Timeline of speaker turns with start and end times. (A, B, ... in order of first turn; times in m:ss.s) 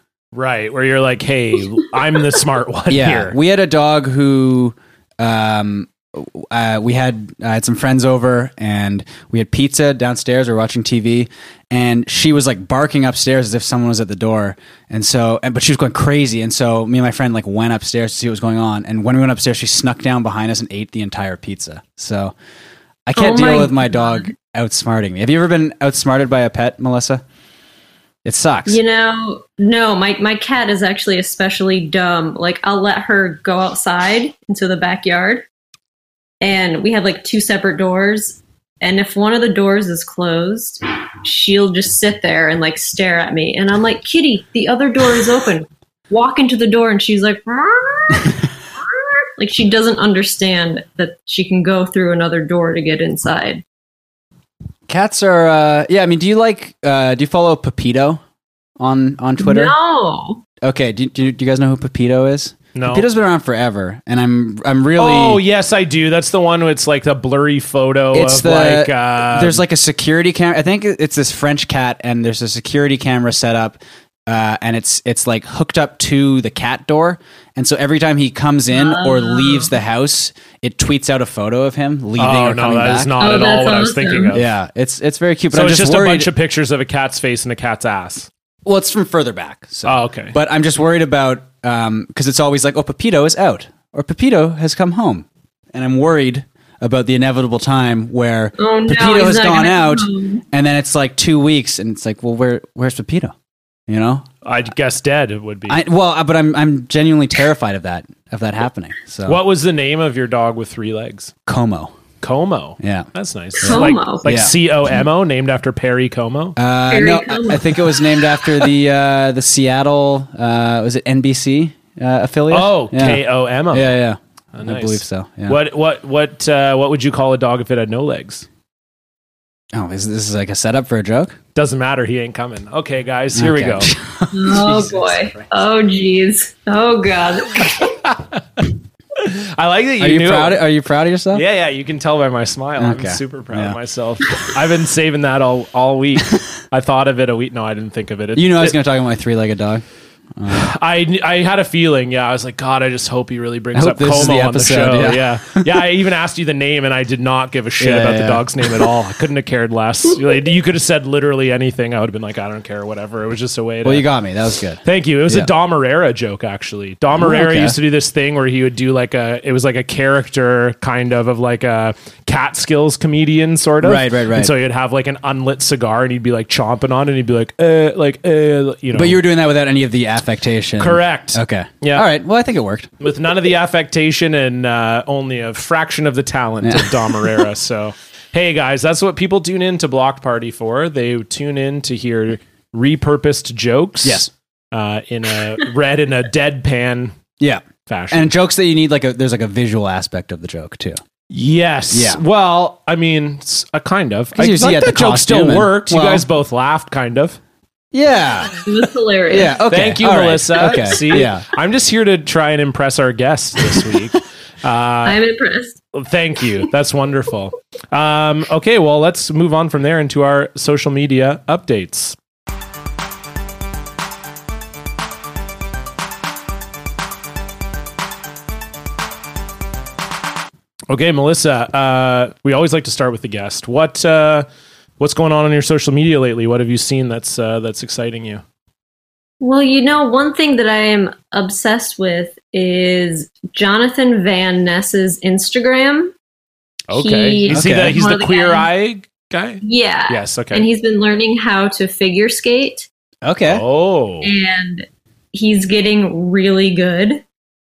0:00.3-0:03.3 A
0:02.9-0:22.3 B
0:23.0-0:27.2 B
0:23.2-0:24.3 C
0:28.2-0:28.8 B
0:28.6-0:35.4 C
0:36.4-0:48.5 C
0:49.4-0:53.6 C
0:54.9-0:58.2 B
0:58.8-0:59.7 B
0:59.4-1:00.4 C
1:00.6-1:05.4 B
1:02.7-1:03.0 A
1:05.0-1:09.6 A
1:08.1-1:23.1 B
1:18.7-1:19.7 C
1:22.2-1:24.5 A
1:23.2-1:24.4 C
1:24.3-1:26.3 B
1:25.5-1:28.3 A
1:28.6-1:43.3 B
1:29.8-1:30.3 A
1:38.6-1:40.4 C
1:43.9-1:44.2 B
1:44.4-1:45.8 A
1:45.7-1:49.4 B
1:49.2-1:51.3 A
1:51.4-1:51.9 B
1:52.2-1:56.6 A
1:52.8-1:53.1 B
1:53.6-1:54.2 C
1:53.6-1:54.5 B
1:56.6-2:05.6 B
1:56.9-1:58.4 C
2:02.5-2:04.0 A
2:04.5-2:08.4 A
2:09.7-2:11.4 B
2:11.5-2:13.9 A
2:13.3-2:15.4 B
2:14.3-2:17.9 C
2:14.7-2:15.5 A
2:17.6-2:20.6 A
2:20.0-2:21.4 B
2:21.3-2:28.8 A
2:22.8-2:23.8 B
2:28.4-2:29.8 B
2:30.4-2:30.7 B
2:30.5-2:44.1 A
2:33.7-2:35.7 B
2:37.8-2:38.9 B
2:43.8-2:45.5 B
2:44.8-2:59.2 A
2:47.1-2:47.8 B
2:53.8-2:54.5 B
2:58.9-3:02.9 B
3:00.8-3:02.0 A
3:03.0-3:17.1 A
3:06.6-3:07.3 B
3:14.0-3:14.3 B
3:17.4-3:21.0 B
3:17.8-3:18.3 A
3:21.3-3:27.4 A
3:21.9-3:22.2 B
3:24.3-3:26.2 B
3:27.9-3:28.5 B
3:28.6-3:29.6 C
3:29.3-3:31.4 B
3:29.7-3:35.2 A
3:35.0-3:35.8 C
3:35.9-3:42.2 A
3:50.9-3:54.4 A
3:55.0-3:58.4 A
3:59.4-4:06.1 C
4:06.9-4:10.6 A
4:06.9-4:08.7 C
4:07.5-4:08.0 B
4:09.6-4:12.9 C
4:13.2-4:13.6 B
4:13.4-4:14.3 A
4:14.2-4:17.2 C